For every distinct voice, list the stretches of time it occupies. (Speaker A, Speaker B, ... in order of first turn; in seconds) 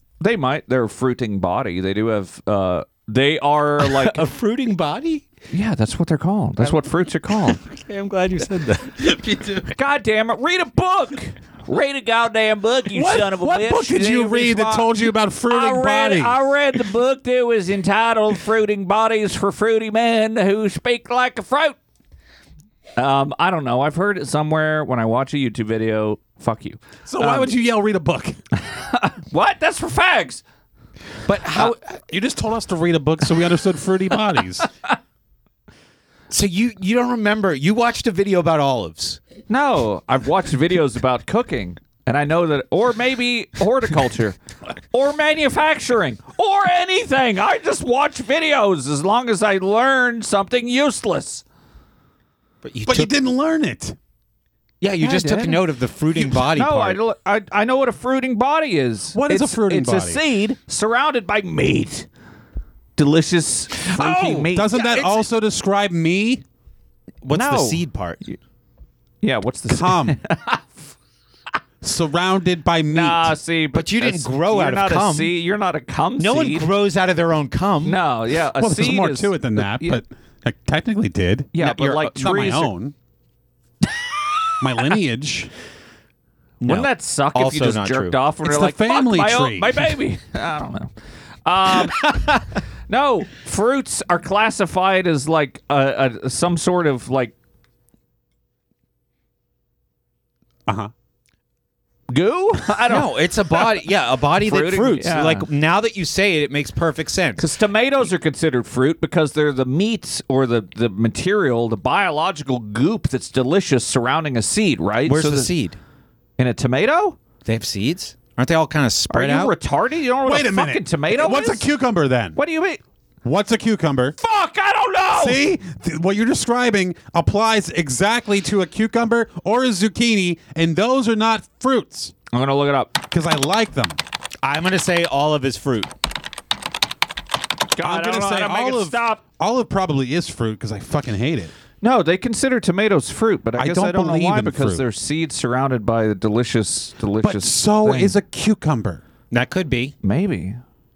Speaker A: 0.2-4.3, 5.5-7.6, 9.7-21.8, 23.0-27.5, 28.6-30.4, 39.5-44.4, 44.9-51.4, 55.0-55.6, 56.1-62.1, 63.0-65.2, 67.3-68.4, 69.2-70.8, 72.9-76.7, 77.8-80.0, 81.5-82.7, 86.6-90.9, 91.5-97.3, 102.1-103.8, 104.4-105.5, 107.4-115.5, 116.4-117.2, 119.1-121.7, 122.4-122.8, 124.2-125.4, 132.3-133.0, 137.7-139.2, 141.8-148.2, 150.0-150.6
Speaker B: 3.8-5.2, 7.5-9.6, 31.3-31.8, 36.3-39.2, 52.6-53.1, 54.8-57.0, 64.0-64.4, 67.2-68.2, 73.7-75.3, 76.2-78.0, 81.6-81.9, 86.6-88.2, 102.9-107.4, 115.1-115.8, 117.5-119.5, 134.4-135.9, 149.3-149.9
Speaker C: 12.9-16.4, 27.1-28.4, 32.1-34.7, 52.9-54.0, 59.1-60.2, 63.9-66.4, 69.7-70.2, 71.8-73.4, 78.6-82.9, 84.6-85.5, 88.4-90.0, 120.2-122.4, 123.2-124.2, 125.1-132.1, 133.1-134.0, 137.8-141.5, 143.6-144.8, 147.2-149.0